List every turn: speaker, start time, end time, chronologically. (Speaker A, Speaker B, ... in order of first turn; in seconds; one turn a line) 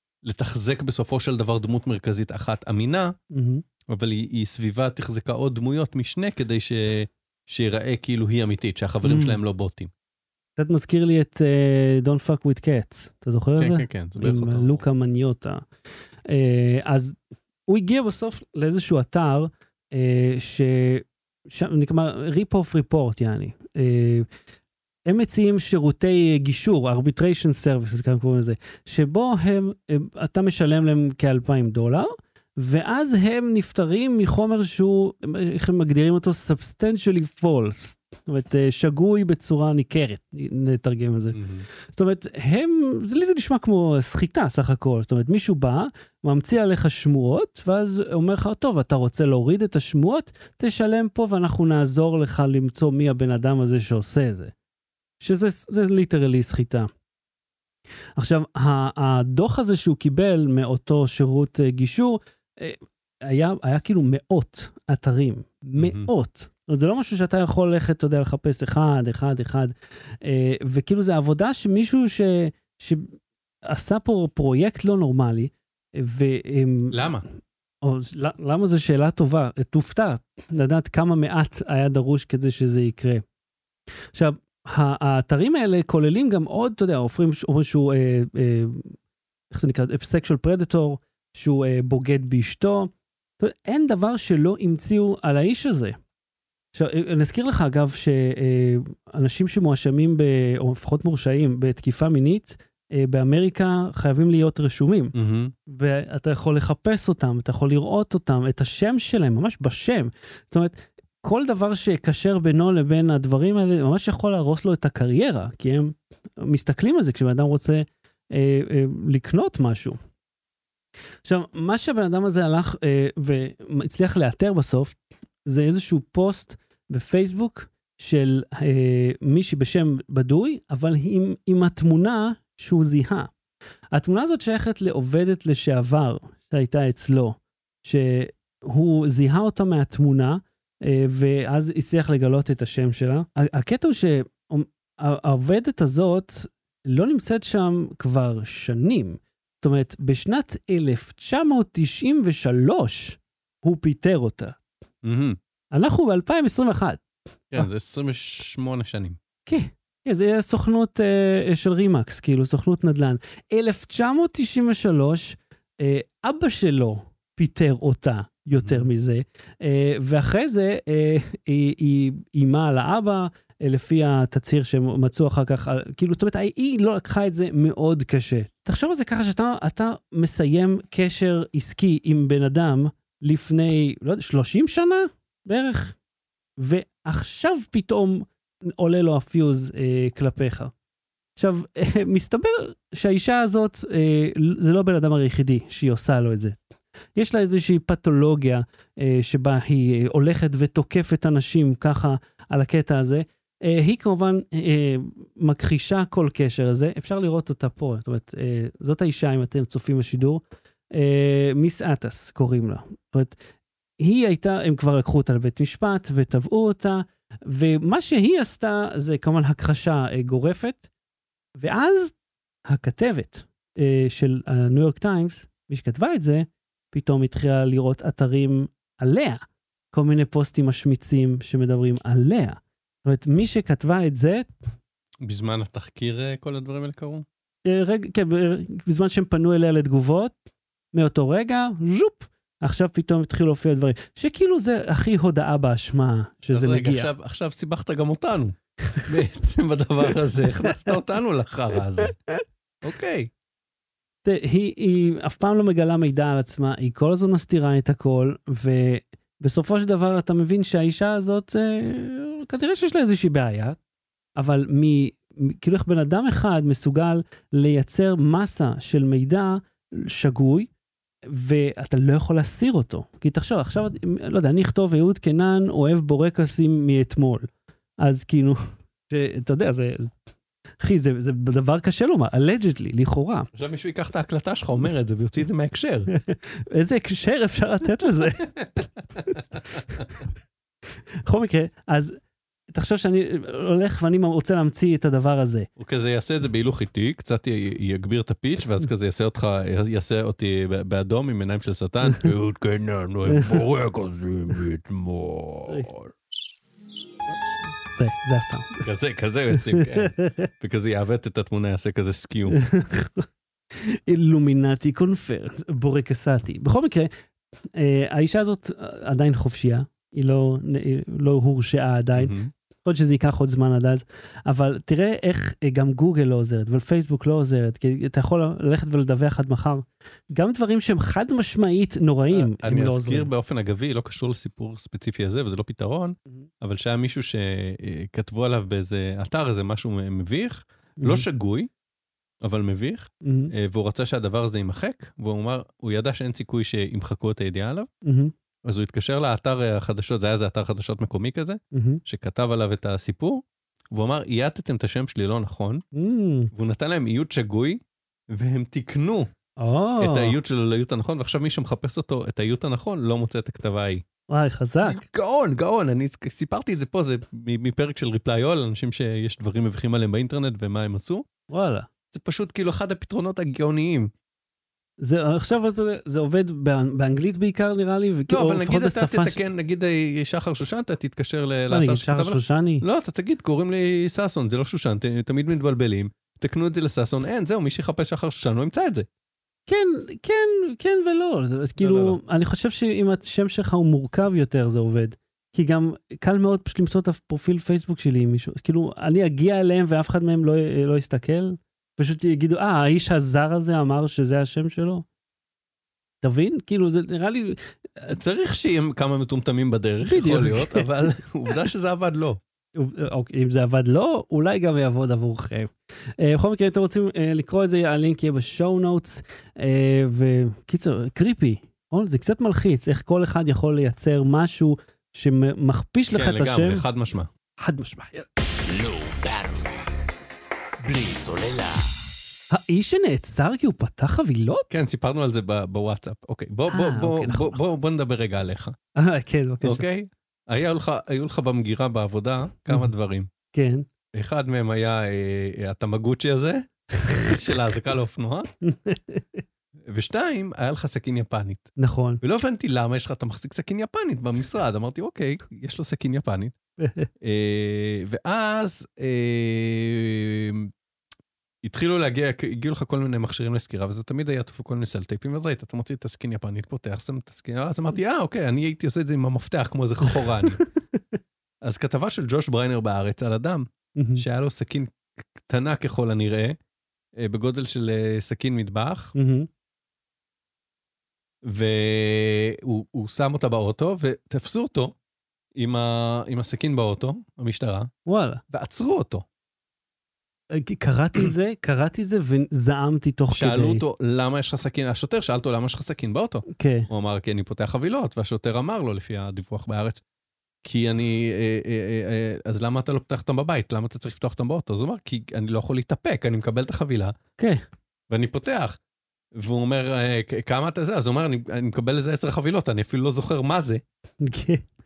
Speaker A: 0.2-3.1
Speaker B: 3.3-3.6
Speaker A: 3.9-9.9
Speaker B: 9.0-9.4
Speaker B: 10.6-15.7
Speaker A: 13.6-14.8
Speaker B: 16.3-24.3
Speaker B: 25.1-54.5
Speaker A: 41.3-41.7
Speaker B: 55.2-56.9
Speaker B: 58.2-73.2
Speaker A: 65.8-66.1
Speaker B: 73.7-77.1
Speaker A: 76.9-77.2
Speaker B: 77.8-83.2
Speaker B: 84.1-88.9
Speaker B: 89.5-96.0
Speaker B: 96.8-105.2
Speaker A: 105.2-105.5
Speaker B: 105.7-120.0
Speaker B: 121.2-133.3
Speaker B: 133.9-154.6
Speaker A: 155.0-155.4
Speaker B: 155.7-157.0
Speaker A: 157.5-159.2
Speaker B: 159.5-186.0
Speaker A: 168.6-168.9
Speaker B: 186.6-190.7
Speaker B: 191.4-196.6
Speaker B: 197.2-213.4
Speaker B: 214.0-220.8
Speaker B: 221.6-222.2
Speaker B: 222.7-229.4
Speaker B: 229.9-234.5
Speaker A: 235.2-237.3
Speaker B: 237.7-240.3
Speaker B: 240.9-247.1
Speaker A: 246.5-252.2
Speaker A: 252.8-253.3
Speaker B: 254.2-263.8
Speaker B: 264.4-270.7
Speaker B: 271.3-277.5
Speaker B: 278.0-280.1
Speaker B: 280.8-283.5
Speaker A: 283.5-286.1
Speaker B: 286.1-288.5
Speaker A: 288.6-289.8
Speaker B: 291.3-292.2
Speaker B: 292.7-295.7
Speaker A: 295.8-306.1
Speaker B: 303.3-303.6
Speaker B: 307.9-308.9
Speaker A: 308.8-312.6
Speaker B: 309.6-310.5
Speaker B: 312.5-317.1
Speaker B: 317.7-333.3
Speaker A: 322.2-322.5
Speaker A: 332.3-341.7
Speaker B: 341.0-341.2
Speaker A: 342.4-347.9
Speaker B: 343.2-343.5
Speaker B: 348.1-348.3
Speaker A: 348.6-355.8
Speaker B: 351.7-352.0
Speaker B: 355.9-356.5
Speaker A: 356.5-359.3
Speaker B: 359.6-360.4
Speaker A: 360.0-364.1
Speaker B: 364.3-365.0
Speaker A: 364.8-371.2
Speaker B: 371.5-371.9
Speaker A: 372.1-374.1
Speaker B: 375.0-379.4
Speaker A: 378.3-389.1
Speaker B: 381.7-382.8
Speaker B: 389.7-405.1
Speaker A: 391.8-392.2
Speaker B: 406.2-407.6
Speaker A: 408.0-412.4
Speaker B: 410.1-410.9
Speaker B: 412.8-426.9
Speaker A: 426.1-427.3
Speaker B: 427.6-428.3
Speaker C: 428.5-430.0
Speaker C: 430.8-431.9
Speaker B: 432.5-434.8
Speaker A: 434.7-438.8
Speaker B: 436.7-437.6
Speaker B: 439.0-439.9
Speaker A: 439.6-443.3
Speaker B: 443.5-443.9
Speaker A: 444.1-448.5
Speaker B: 448.6-449.4
Speaker A: 449.9-451.7
Speaker B: 451.8-452.2
Speaker A: 452.2-456.5
Speaker B: 456.8-457.1
Speaker A: 457.2-460.7
Speaker A: 461.6-470.6
Speaker B: 470.4-471.0
Speaker A: 471.6-476.6
Speaker B: 474.0-474.2
Speaker A: 477.2-479.1
Speaker B: 479.1-479.5
Speaker A: 481.4-484.9
Speaker A: 485.6-487.9
Speaker B: 488.1-488.4
Speaker A: 488.5-489.2
Speaker B: 490.5-493.8
Speaker A: 493.3-500.0
Speaker B: 496.5-496.9
Speaker A: 500.6-507.1
Speaker B: 507.4-507.6
Speaker A: 508.1-508.8
Speaker A: 509.3-513.8
Speaker B: 514.2-514.6